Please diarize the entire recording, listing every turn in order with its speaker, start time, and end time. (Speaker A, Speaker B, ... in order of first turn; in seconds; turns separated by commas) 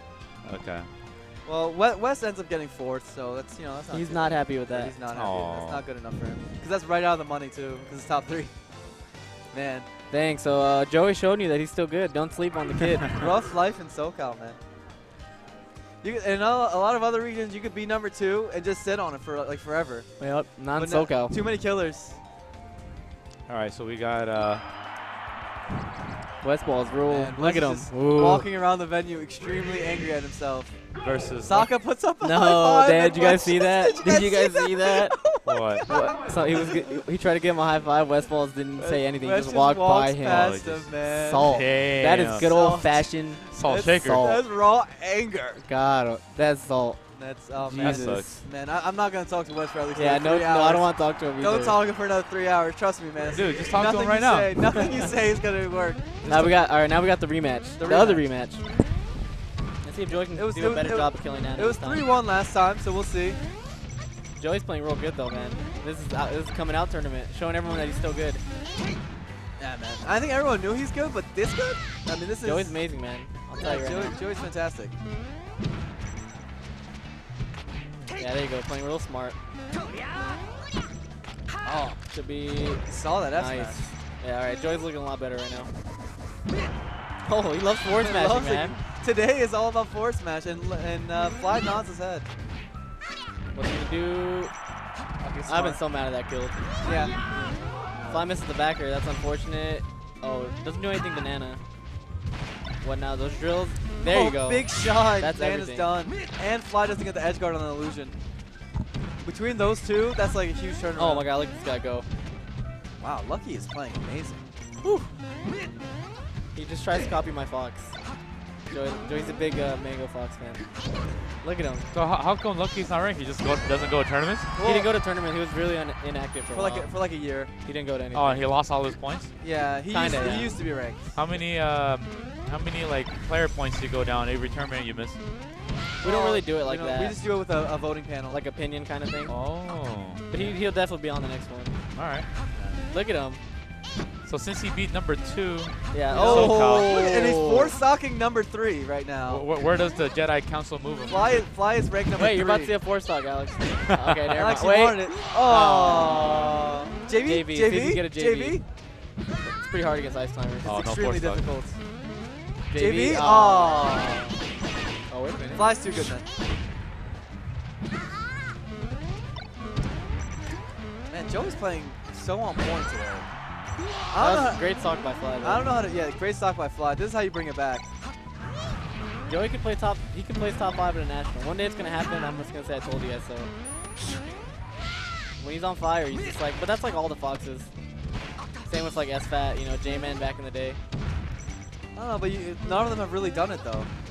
Speaker A: 0.4-0.9, Speaker B: 1.4-8.6, Speaker C: 3.9-4.9, Speaker A: 5.1-5.8, Speaker B: 9.5-9.9, Speaker C: 10.1-13.2, Speaker B: 13.1-14.6, Speaker B: 16.0-20.1, Speaker C: 20.2-21.4, Speaker B: 20.7-22.2, Speaker A: 23.5-24.6, Speaker C: 26.4-28.4, Speaker B: 27.1-36.7, Speaker A: 31.0-31.7, Speaker C: 32.2-35.2, Speaker A: 35.4-35.9, Speaker C: 35.9-40.6, Speaker B: 38.8-41.6, Speaker A: 40.2-42.5, Speaker C: 41.1-44.4, Speaker B: 42.4-45.6, Speaker A: 43.5-44.3, Speaker C: 45.6-47.0, Speaker B: 47.1-56.5, Speaker C: 47.6-48.4, Speaker A: 47.7-48.4, Speaker C: 49.9-51.8, Speaker A: 53.3-55.0, Speaker C: 56.2-58.6, Speaker B: 57.8-58.2, Speaker C: 59.8-62.0, Speaker B: 60.3-63.4, Speaker C: 64.4-68.4, Speaker B: 69.6-72.8, Speaker C: 72.4-74.2, Speaker B: 73.6-74.9, Speaker C: 78.2-79.4, Speaker B: 81.6-82.0, Speaker C: 82.1-85.8, Speaker B: 82.8-83.8, Speaker C: 87.2-88.8, Speaker B: 87.9-92.3, Speaker C: 93.5-94.5, Speaker B: 95.2-95.8, Speaker C: 95.5-96.6, Speaker B: 96.8-98.2, Speaker C: 98.0-101.6, Speaker C: 102.8-105.9, Speaker B: 104.0-108.2, Speaker B: 109.2-111.3, Speaker C: 111.0-112.1, Speaker B: 113.0-114.5, Speaker C: 114.8-115.1, Speaker C: 116.5-118.0, Speaker C: 118.7-120.7, Speaker C: 121.4-121.9, Speaker A: 121.9-124.5, Speaker B: 124.5-124.9, Speaker C: 124.6-126.9, Speaker B: 126.5-127.5, Speaker C: 127.6-128.5, Speaker A: 128.1-129.3, Speaker B: 129.4-131.4, Speaker C: 129.9-130.5, Speaker A: 131.1-135.2, Speaker C: 136.0-137.2, Speaker B: 136.0-138.4, Speaker C: 138.3-139.4, Speaker A: 139.3-140.2, Speaker C: 140.3-141.8, Speaker A: 141.9-142.3, Speaker B: 142.5-142.8, Speaker C: 142.9-143.4, Speaker A: 144.2-147.0, Speaker C: 145.9-147.8, Speaker B: 146.1-149.4, Speaker A: 149.2-151.5, Speaker B: 151.0-152.7, Speaker C: 152.1-156.6, Speaker B: 154.3-158.6, Speaker C: 157.2-158.6, Speaker C: 159.4-160.7, Speaker A: 160.6-161.4, Speaker B: 160.6-161.8, Speaker C: 162.7-164.3, Speaker B: 162.7-164.2, Speaker C: 165.1-165.7, Speaker B: 165.5-166.2, Speaker B: 171.1-173.3, Speaker B: 174.1-174.6, Speaker C: 174.2-175.7, Speaker B: 175.4-177.8, Speaker C: 179.2-183.5, Speaker C: 185.4-187.7, Speaker C: 188.6-190.8, Speaker B: 191.9-193.9